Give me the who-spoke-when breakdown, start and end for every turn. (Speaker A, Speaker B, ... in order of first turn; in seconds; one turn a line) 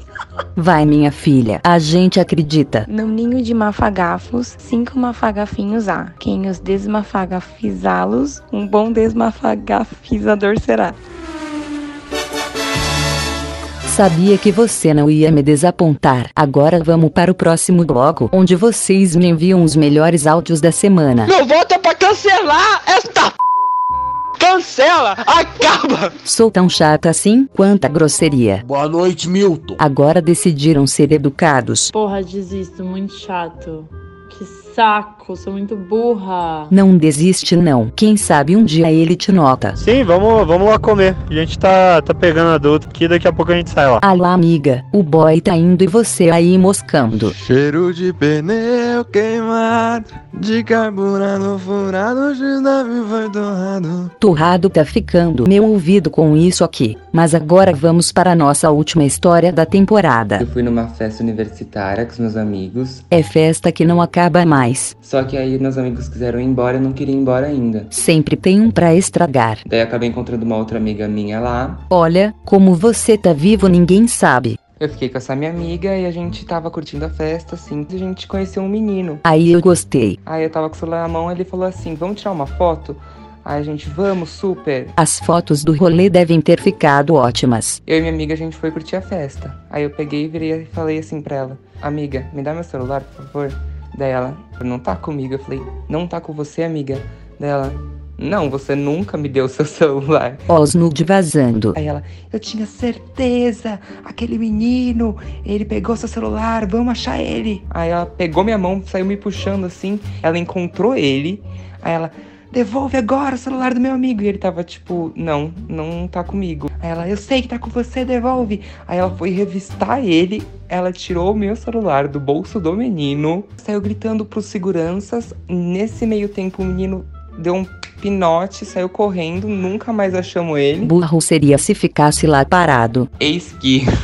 Speaker A: 0.6-2.9
Speaker B: 2.9-11.0
Speaker A: 13.9-21.3
Speaker C: 21.2-23.3
Speaker C: 24.4-26.1
Speaker A: 26.2-28.6
Speaker A: 29.8-31.9
Speaker D: 31.9-36.8
Speaker A: 36.7-39.8
Speaker E: 39.8-44.0
Speaker A: 44.0-47.4
Speaker F: 47.4-54.1
Speaker A: 54.2-60.5
Speaker G: 60.4-63.1
Speaker A: 63.1-65.0
Speaker G: 65.0-67.9
Speaker A: 67.9-69.6
Speaker G: 69.7-71.9
Speaker A: 71.9-74.6
Speaker G: 74.8-79.2
Speaker A: 79.2-80.2
Speaker G: 80.3-85.0
Speaker A: 85.0-87.8
Speaker G: 87.9-100.4
Speaker A: 100.5-101.8
Speaker G: 101.8-130.9
Speaker A: 130.8-133.1
Speaker G: 133.2-133.9